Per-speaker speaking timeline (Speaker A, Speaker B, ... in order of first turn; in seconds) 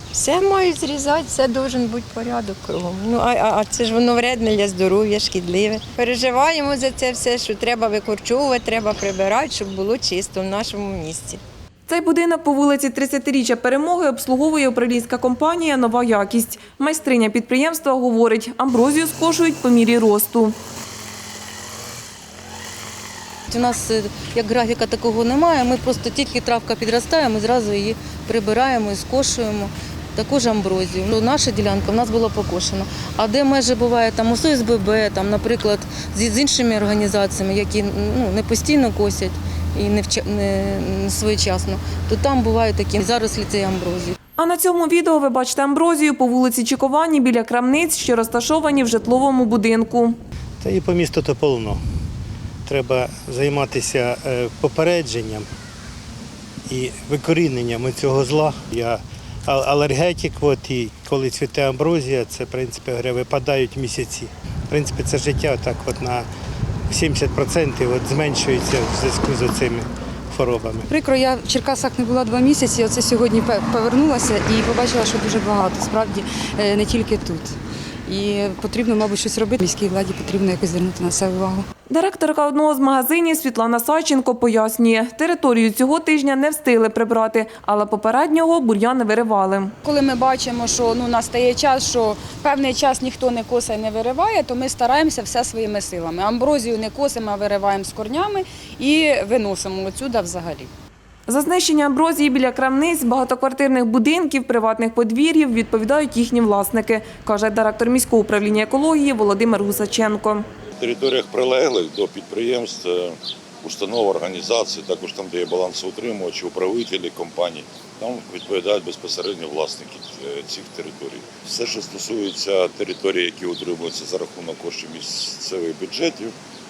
Speaker A: 0.1-11.4
Speaker B: 11.9-20.5, 44.4-50.1, 81.9-89.7, 101.3-110.5
Speaker C: 23.5-44.2
Speaker D: 50.6-51.8, 52.6-55.5, 56.7-66.3, 66.9-70.9
Speaker E: 70.9-77.5, 78.0-81.7
Speaker F: 89.8-100.7
Speaker G: 110.8-126.3